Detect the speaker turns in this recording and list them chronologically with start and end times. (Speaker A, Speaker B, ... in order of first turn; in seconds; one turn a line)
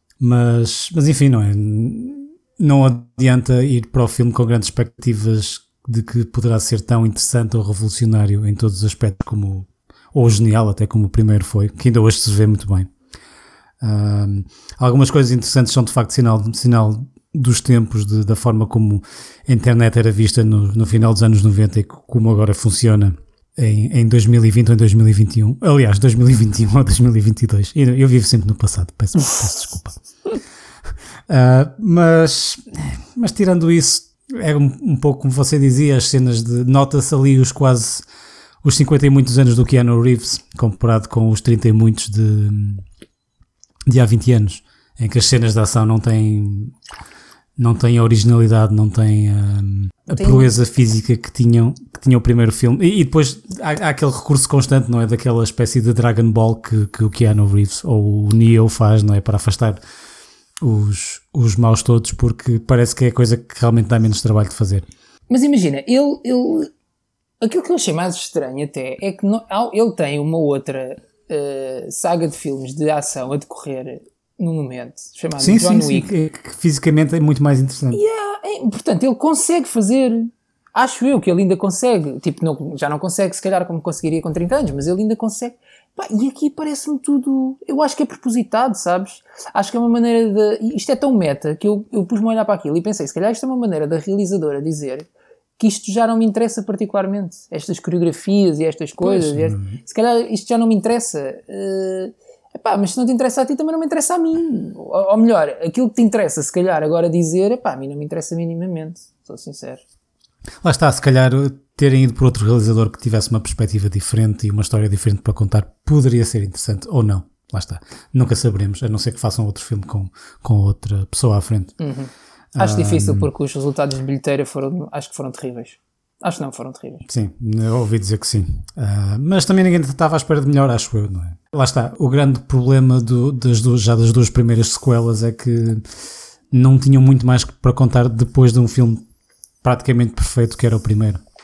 Speaker A: 0.2-12.9
Speaker A: 13.8-30.0
Speaker A: 31.3-38.0
Speaker A: 38.6-42.9
Speaker A: 43.9-46.8
Speaker A: 47.6-59.8
Speaker B: 50.1-50.5
Speaker A: 60.6-64.9
Speaker B: 65.3-66.7
Speaker B: 67.4-76.1
Speaker A: 75.4-78.0
Speaker B: 77.9-95.1
Speaker B: 95.6-109.8
Speaker A: 99.0-99.8
Speaker A: 110.6-121.7
Speaker B: 121.8-127.0
Speaker A: 122.6-123.3
Speaker A: 127.0-135.8
Speaker A: 136.5-139.0
Speaker A: 139.6-141.2